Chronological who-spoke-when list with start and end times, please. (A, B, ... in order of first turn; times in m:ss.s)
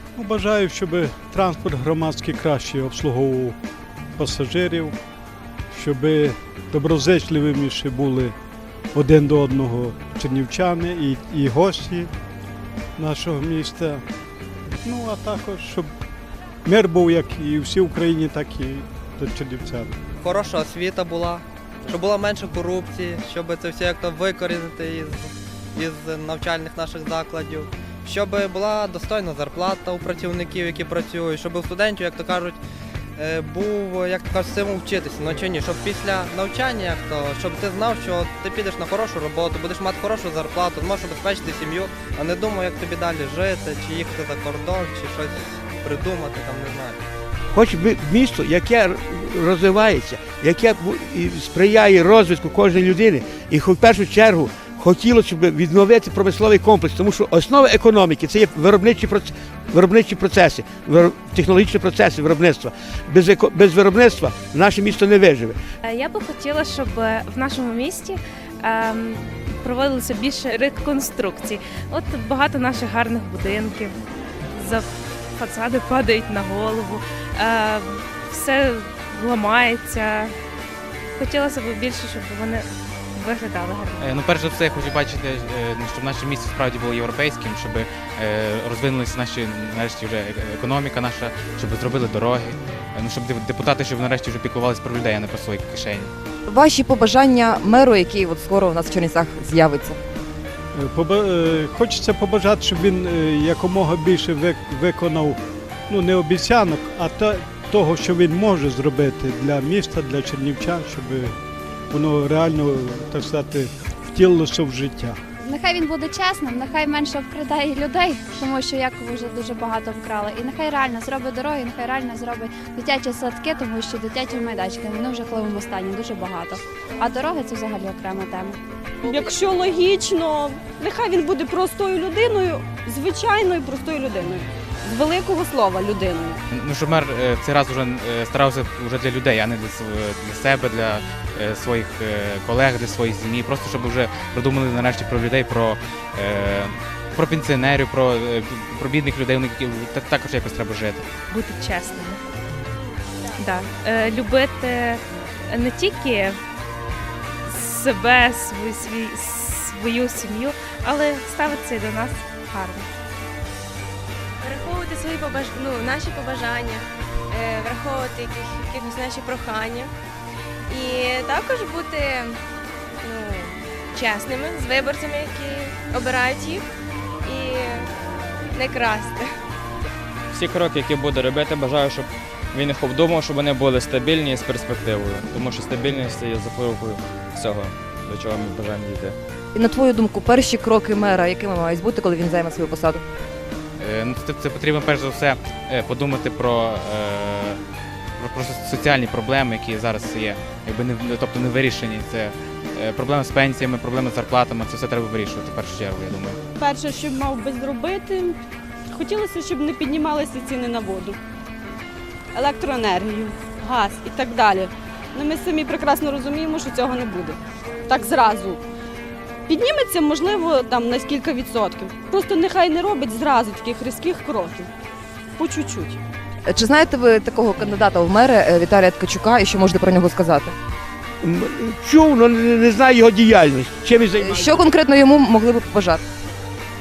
0:00.2-0:03.6 A
0:04.2-0:04.9 A
0:05.7-0:08.3 A
0:08.9-0:12.1 A
0:13.0-0:14.0 A
0:14.8-0:15.9 A
0:16.6-0:20.0 A
0:20.2-0:32.6 B
0:33.2-0:47.0 B
0:47.5-1:05.6 C
1:05.8-1:14.0 D
1:14.5-1:20.3 D
1:21.2-1:24.1 D
1:24.0-1:36.1 E
1:36.5-1:40.0 F
1:40.7-1:51.3 A
1:51.9-1:55.2 A
1:55.4-2:08.6 G
2:09.0-2:16.4 H
2:16.5-2:31.1 E
2:31.3-2:32.2 D
2:33.3-2:36.4 D
2:37.4-2:42.9 D
2:44.4-2:49.9 I
2:50.7-2:52.4 I
2:53.0-2:56.7 I
2:57.2-2:57.9 I
2:58.5-2:59.3 I
3:00.3-3:09.2 J
3:09.5-3:13.0 F
3:13.8-3:17.6 E
3:18.2-3:26.4 E
3:26.6-3:28.4 H
3:28.9-3:31.2 H
3:32.3-3:38.6 H
3:39.5-3:44.7 H
3:45.4-3:46.0 H
3:46.5-3:50.5 F
3:51.2-3:54.6 C
3:54.2-3:56.0 F